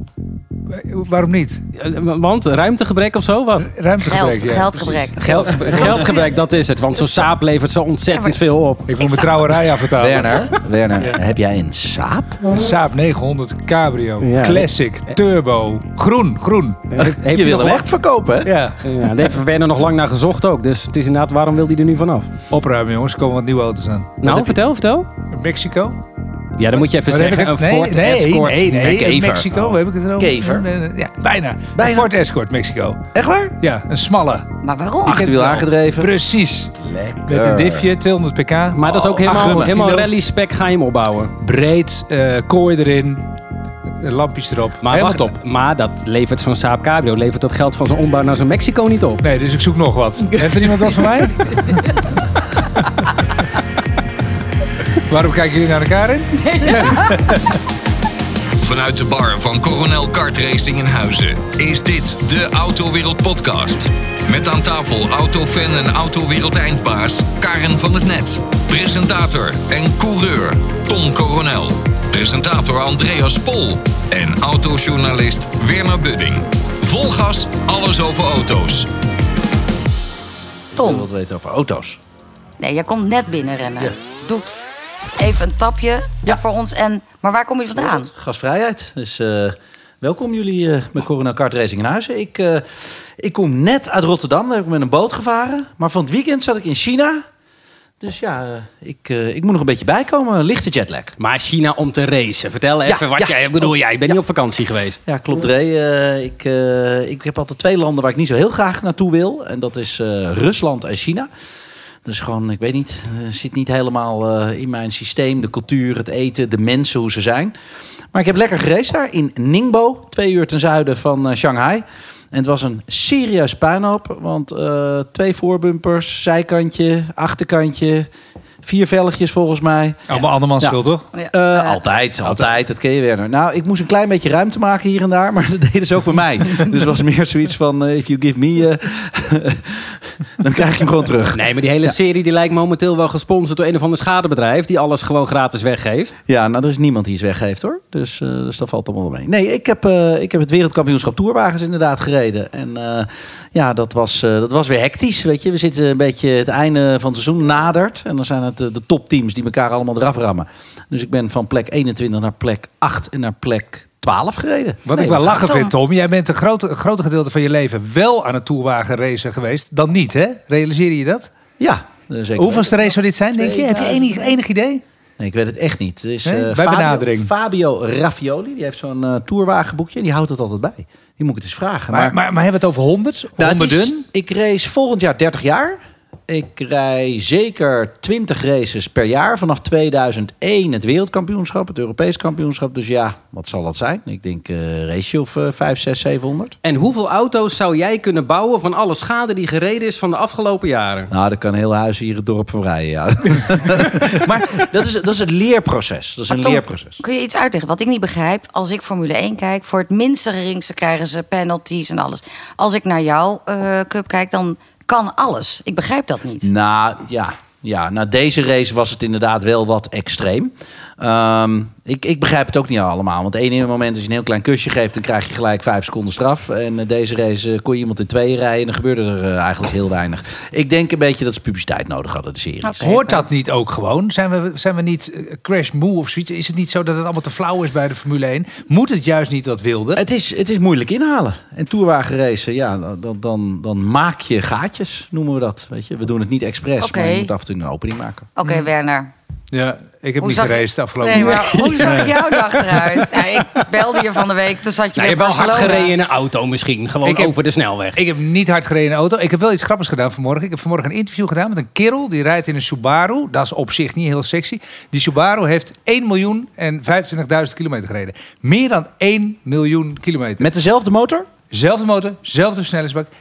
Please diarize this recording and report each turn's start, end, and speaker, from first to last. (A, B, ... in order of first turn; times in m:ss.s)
0:00.7-0:01.6 A
0:01.7-0:03.7 B
0:03.6-0:06.0 A
0:04.0-0:06.3 C
0:05.2-0:09.0 B
0:08.1-0:08.4 C
0:08.9-0:10.5 A
0:09.0-0:09.6 C
0:09.9-0:12.5 D
0:12.5-0:16.9 A
0:14.2-0:14.7 B
0:16.9-0:17.8 B
0:17.0-0:18.6 D
0:18.4-0:18.8 A
0:18.8-0:22.3 B
0:22.5-0:24.5 A
0:24.2-0:25.1 B
0:25.3-0:26.0 A
0:26.6-0:29.0 B
0:26.8-0:33.0 A
0:28.8-0:29.5 D
0:30.2-0:30.7 D
0:31.7-0:32.1 D
0:33.1-0:33.6 D
0:33.6-0:34.4 A
0:34.6-0:35.3 C
0:35.0-0:36.1 D
0:35.0-0:36.7 A
0:36.8-0:37.9 D
0:37.3-0:40.1 A
0:38.7-0:41.3 B
0:38.8-0:39.8 D
0:41.4-0:43.2 A
0:44.0-0:45.3 A
0:44.8-0:49.2 B
0:49.2-0:52.0 A
0:52.8-0:53.1 A
0:55.0-0:57.4 A
0:56.4-0:57.4 C
0:58.6-1:18.9 E
1:20.7-1:22.0 D
1:20.8-1:21.0 C
1:22.6-1:24.5 C
1:25.2-1:28.1 C
1:27.8-1:37.2 D
1:38.0-1:41.1 D
1:41.2-1:45.0 B
1:42.8-1:44.2 D
1:45.0-1:51.3 D
1:52.0-1:57.5 D
1:58.1-2:08.1 D
2:08.6-2:10.8 D
2:10.1-2:11.1 A
2:11.1-2:11.8 C
2:11.3-2:22.0 D
2:21.3-2:26.2 B
2:26.3-2:45.5 D
2:44.8-2:51.3 A
2:45.4-2:45.7 C
2:51.6-2:54.2 D
2:52.3-2:54.8 A
2:55.2-3:02.1 D
2:56.2-2:57.3 A
3:01.9-3:04.0 A
3:03.4-3:16.5 D
3:16.6-3:21.1 B
3:21.1-3:27.0 D
3:26.3-3:36.5 C
3:36.4-3:52.8 D
3:52.6-3:53.2 C
3:52.8-4:00.0 A
4:00.0-4:08.3 D
4:06.8-4:07.3 C
4:08.4-4:09.1 C
4:09.5-4:13.0 A
4:10.2-4:15.9 C
4:13.0-4:13.6 B
4:15.0-4:18.0 B
4:17.0-4:17.3 A
4:17.9-4:30.5 A
4:30.4-4:31.3 D
4:31.5-4:33.1 A